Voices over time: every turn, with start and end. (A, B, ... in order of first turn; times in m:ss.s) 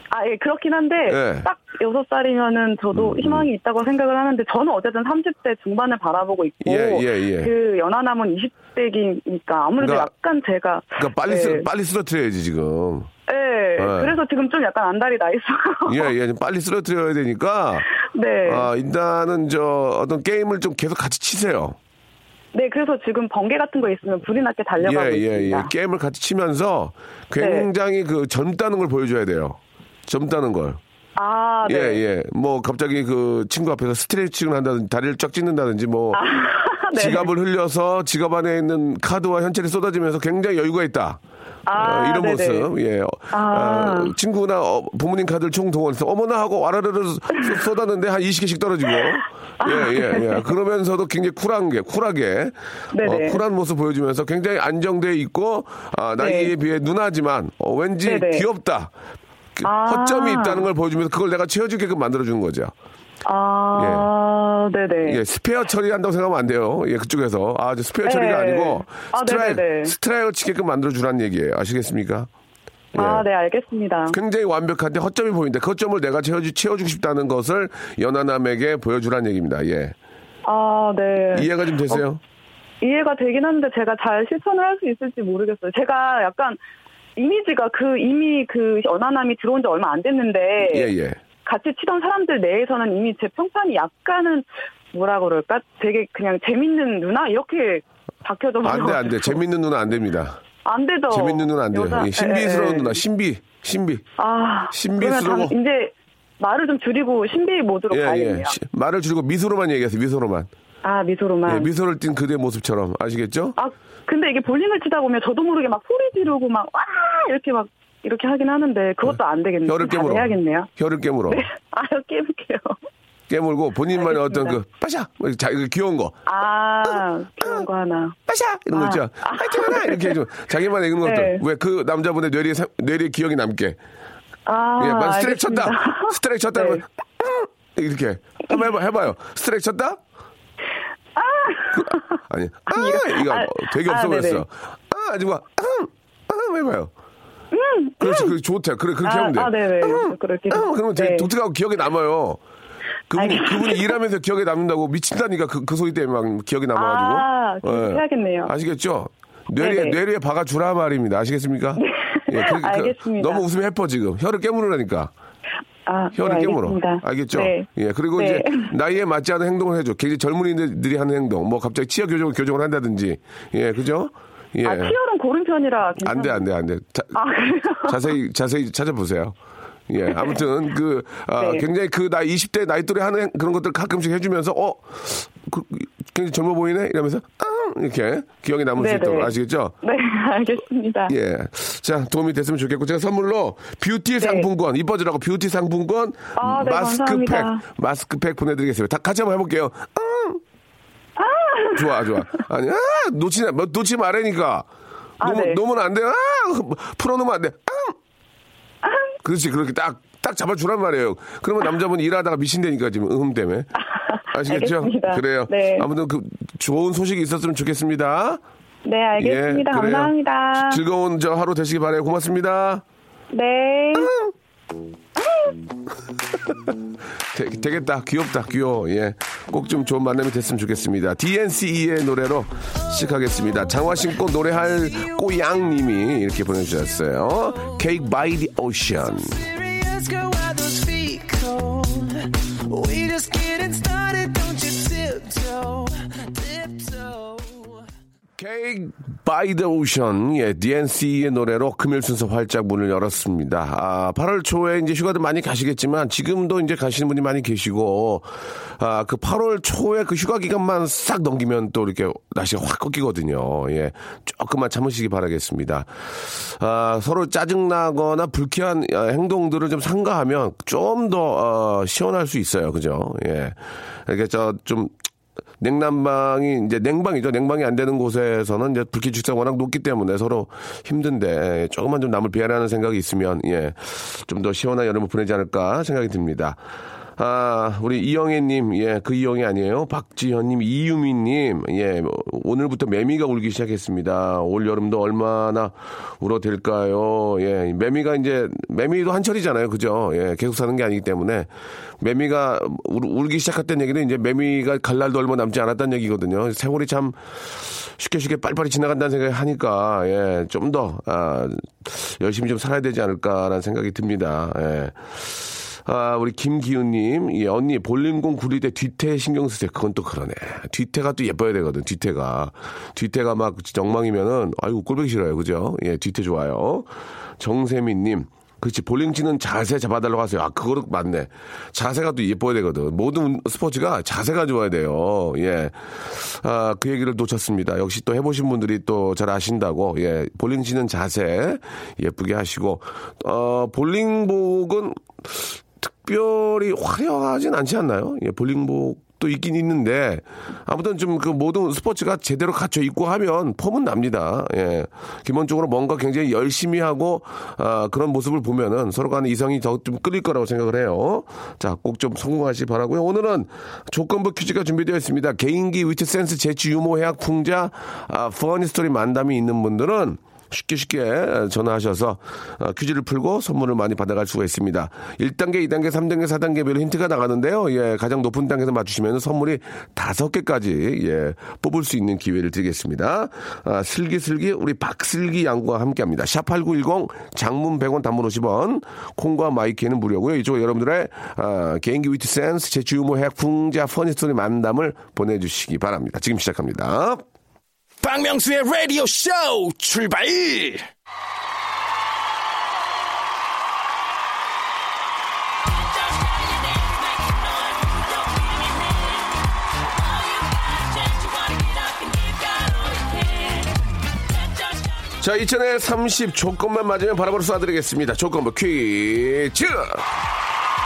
0:00.1-0:11.7 A
0:01.1-0:01.5 B
0:02.9-0:03.5 B
0:06.6-0:07.5 B
0:09.8-0:10.1 B
0:11.0-0:13.1 B
0:13.3-0:16.1 A
0:13.8-0:14.2 B
0:15.9-0:17.9 B
0:18.0-0:18.7 A
0:18.5-0:21.8 B
0:22.5-0:25.7 A
0:24.8-0:30.8 B
0:27.4-0:27.7 A
0:31.2-0:32.0 A
0:31.7-0:36.2 B
0:36.1-0:37.3 A
0:37.0-0:41.2 B
0:41.7-0:42.7 A
0:41.8-0:58.9 B
0:43.3-0:44.1 A
0:49.6-0:50.4 A
0:52.9-0:53.4 A
0:56.2-0:56.5 A
0:58.0-0:58.4 A
0:59.6-1:02.7 B
0:59.6-1:00.7 A
1:03.3-1:05.2 A
1:03.8-1:04.1 B
1:05.0-1:12.3 B
1:08.0-1:09.9 A
1:12.9-1:13.2 B
1:13.0-1:14.2 A
1:14.1-1:20.0 B
1:20.5-1:22.0 A
1:21.3-1:22.2 B
1:22.8-1:26.6 A
1:27.2-1:30.9 A
1:30.6-1:31.2 B
1:31.4-1:39.4 A
1:38.6-1:40.4 B
1:40.6-1:43.0 A
1:41.1-1:44.0 B
1:44.2-1:48.6 A
1:44.7-1:45.5 B
1:47.9-1:50.5 B
1:50.8-1:51.7 A
1:51.5-1:53.6 B
1:53.6-2:00.7 A
1:59.6-2:01.5 B
2:01.3-2:02.8 A
2:03.3-2:06.2 B
2:04.0-2:04.6 A
2:06.3-2:08.2 A
2:06.8-2:07.6 B
2:08.3-2:13.8 B
2:08.7-2:10.2 A
2:11.0-2:11.4 A
2:14.5-2:16.8 A
2:14.8-2:20.0 B
2:21.2-2:24.4 A
2:21.7-2:26.9 B
2:27.5-2:28.3 A
2:28.0-2:32.4 B
2:29.0-2:31.3 A
2:33.1-2:45.1 B
2:33.2-2:34.0 A
2:36.8-2:38.5 A
2:39.6-2:40.0 A
2:41.8-2:43.4 A
2:45.9-2:48.7 A
2:46.2-2:55.0 B
2:54.6-2:56.4 A
2:56.0-2:57.2 B
2:57.2-2:58.0 A
2:57.9-2:59.4 B
2:59.9-3:09.7 B
3:00.1-3:00.4 A
3:01.4-3:01.6 A
3:08.8-3:11.1 A
3:11.1-3:20.4 B
3:14.2-3:14.5 A
3:16.4-3:17.6 A
3:21.2-3:22.2 A
3:21.8-3:24.7 B
3:25.2-3:25.6 A
3:25.2-3:28.0 B
3:29.2-3:33.7 B
3:33.9-3:35.9 A
3:34.3-3:38.4 B
3:38.8-3:40.8 A
3:39.2-3:42.8 B
3:43.3-3:44.1 A
3:44.0-3:44.3 B
3:47.3-3:59.4 B
3:52.9-3:55.4 C
3:59.0-4:07.9 C
4:08.4-4:34.9 B
4:35.6-4:46.6 B
4:47.2-5:01.5 B
5:02.0-6:37.3 B
6:38.0-6:40.9 D
6:55.2-7:00.1 B